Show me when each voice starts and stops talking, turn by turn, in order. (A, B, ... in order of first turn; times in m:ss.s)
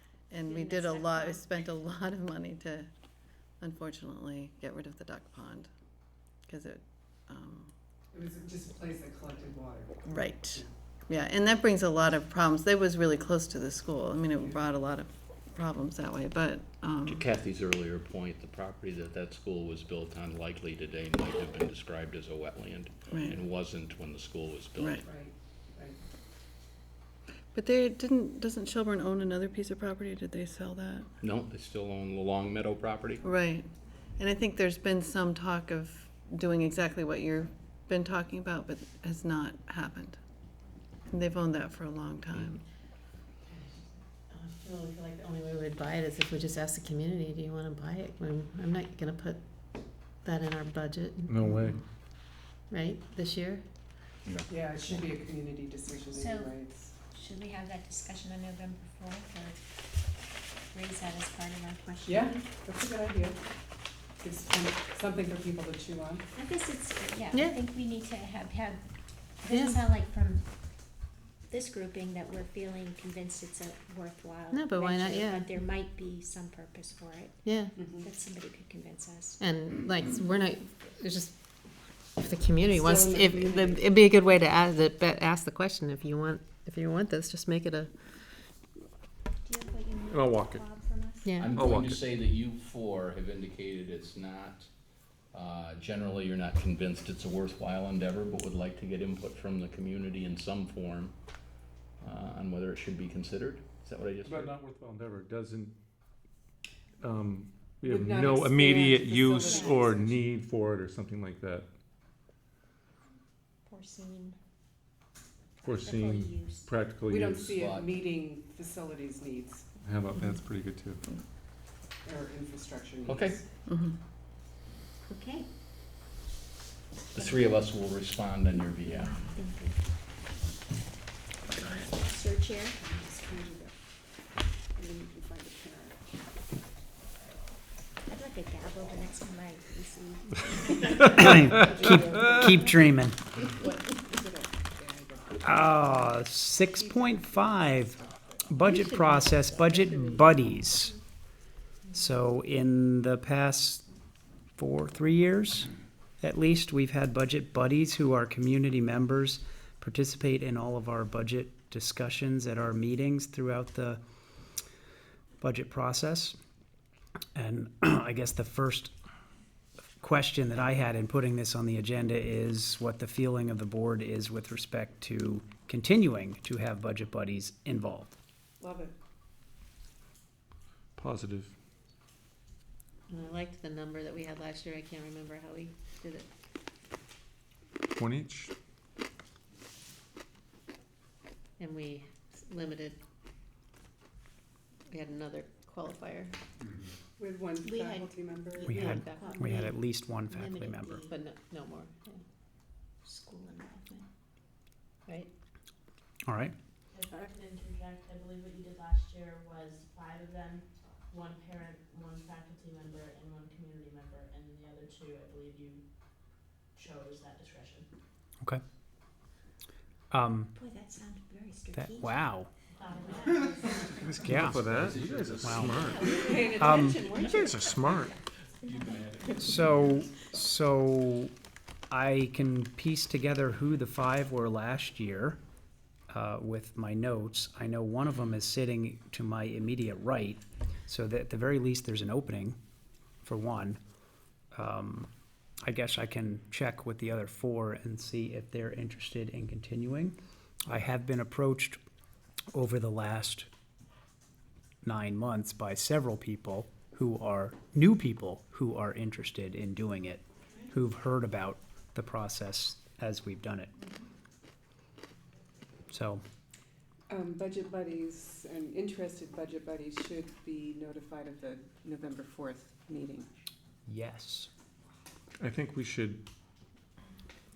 0:00.3-0:02.9 A
0:00.4-0:01.6 B
0:03.6-0:05.7 A
0:06.5-0:07.7 A
0:08.1-0:10.0 C
0:10.0-0:17.2 A
0:17.1-0:25.1 D
0:23.1-0:23.3 A
0:24.8-0:25.0 A
0:25.0-0:26.0 C
0:27.5-0:31.1 A
0:31.2-0:33.2 D
0:33.2-0:40.2 A
0:41.1-0:42.6 A
0:44.3-0:49.4 E
0:50.2-0:51.7 E
0:51.3-0:51.8 F
0:52.7-0:53.6 E
0:54.2-0:55.3 D
0:54.5-0:56.9 C
0:56.1-0:59.6 G
1:00.7-1:02.5 G
1:02.1-1:03.4 C
1:04.2-1:06.2 C
1:06.3-1:08.8 G
1:09.4-1:10.4 G
1:09.5-1:09.8 E
1:11.5-1:19.4 G
1:14.5-1:15.6 E
1:17.4-1:17.8 E
1:17.8-1:18.0 C
1:19.4-1:21.3 E
1:22.2-1:28.1 E
1:22.8-1:23.8 C
1:29.4-1:31.5 G
1:30.1-1:30.6 F
1:31.2-1:31.6 E
1:31.4-1:34.7 D
1:31.6-1:32.0 F
1:35.3-1:41.1 D
1:42.0-1:44.5 D
1:44.3-1:45.7 F
1:47.0-1:51.7 F
1:47.8-1:50.2 C
1:49.4-1:49.9 G
1:53.6-1:54.4 G
1:55.6-1:56.7 G
1:55.6-1:57.5 F
1:57.1-1:59.7 C
1:57.3-1:58.0 D
1:59.8-2:01.1 F
2:02.0-2:03.4 C
2:03.0-2:03.4 D
2:03.7-2:03.9 A
2:05.1-2:05.5 G
2:07.1-2:09.3 D
2:09.0-2:09.8 G
2:12.0-2:12.8 G
2:12.8-2:13.8 C
2:14.8-2:16.1 C
2:18.1-2:21.1 G
2:21.1-2:23.2 H
2:21.6-2:22.7 C
2:23.4-2:26.2 C
2:25.4-2:31.0 H
2:26.7-2:28.6 C
2:28.6-2:30.4 E
2:31.9-2:33.8 H
2:34.6-2:44.0 H
2:45.4-2:46.4 H
2:47.3-2:48.9 H
2:50.0-2:58.2 H
2:58.6-2:58.9 C
3:00.9-3:01.5 F
3:03.1-3:06.2 E
3:08.0-3:08.5 F
3:11.6-3:13.0 E
3:14.9-3:16.4 E
3:17.2-3:19.0 C
3:17.6-3:18.0 G
3:17.8-3:18.0 E
3:18.6-3:19.7 G
3:18.6-3:21.1 H
3:18.7-3:19.6 E
3:20.4-3:21.0 G
3:21.0-3:22.2 E
3:23.0-3:24.0 G
3:26.2-3:26.5 H
3:26.9-3:37.9 B
3:40.1-3:40.5 H
3:40.5-3:42.2 G
3:41.7-3:42.5 H
3:42.7-3:44.5 B
3:43.0-3:44.3 G
3:44.1-3:44.6 H
3:44.3-3:46.0 F
3:44.4-3:46.3 D
3:45.4-3:45.8 H
3:45.8-3:46.7 G
3:46.0-3:48.0 C
3:46.6-3:47.0 H
3:47.2-3:48.1 F
3:48.7-3:49.5 D
3:49.4-3:51.3 H
3:51.9-3:55.4 H
3:56.1-4:02.6 H
4:03.2-4:03.8 H
4:04.5-4:05.1 H
4:05.6-4:11.8 H
4:12.5-4:13.5 H
4:14.8-4:23.7 H
4:25.9-4:26.2 H
4:27.1-4:33.3 C
4:33.9-4:34.5 H
4:35.4-4:36.2 F